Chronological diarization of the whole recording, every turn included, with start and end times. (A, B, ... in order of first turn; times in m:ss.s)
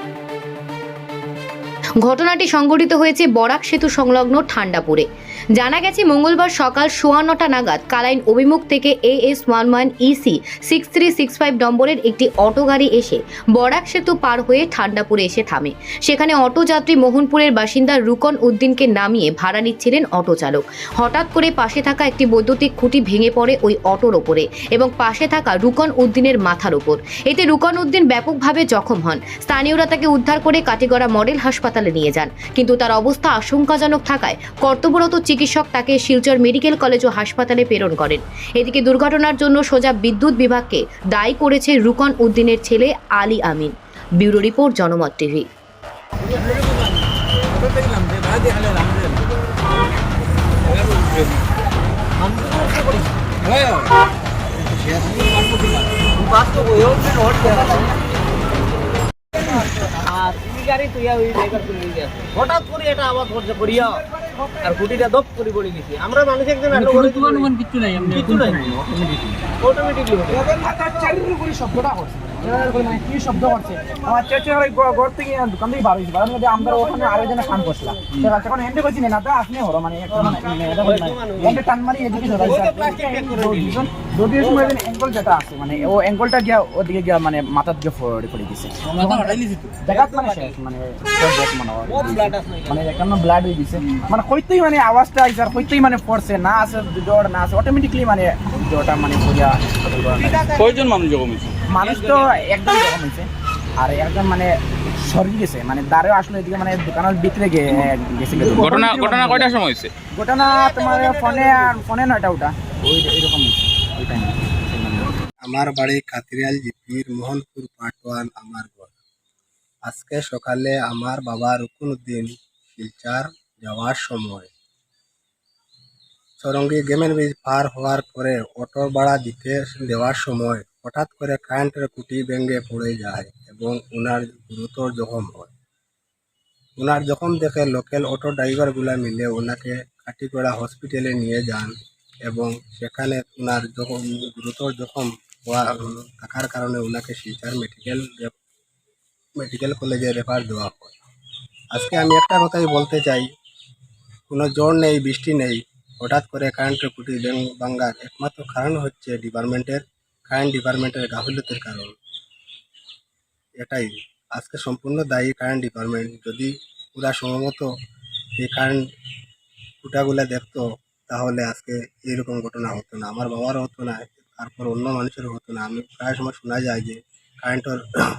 0:02.0-0:45.5 A
0:52.2-0:53.0 B
0:56.1-0:57.9 B
1:00.0-1:04.0 B
1:04.6-1:08.7 B
1:07.0-1:09.4 C
1:09.6-1:10.4 B
1:10.4-1:40.5 C
1:20.9-1:21.6 B
1:22.4-1:23.6 B
1:28.9-1:29.7 D
1:32.0-1:32.7 B
1:40.2-1:40.7 B
1:40.5-1:41.5 D
1:41.7-1:49.6 C
1:48.4-1:49.9 D
1:50.1-1:55.2 C
1:55.4-1:58.9 E
1:59.9-2:04.5 E
2:06.4-2:15.5 E
2:16.8-2:21.7 E
2:22.3-2:28.3 E
2:29.4-2:31.0 E
2:31.7-2:33.3 E
2:34.3-2:41.9 E
2:43.6-2:47.7 E
2:48.4-2:48.8 E
2:49.8-2:57.8 E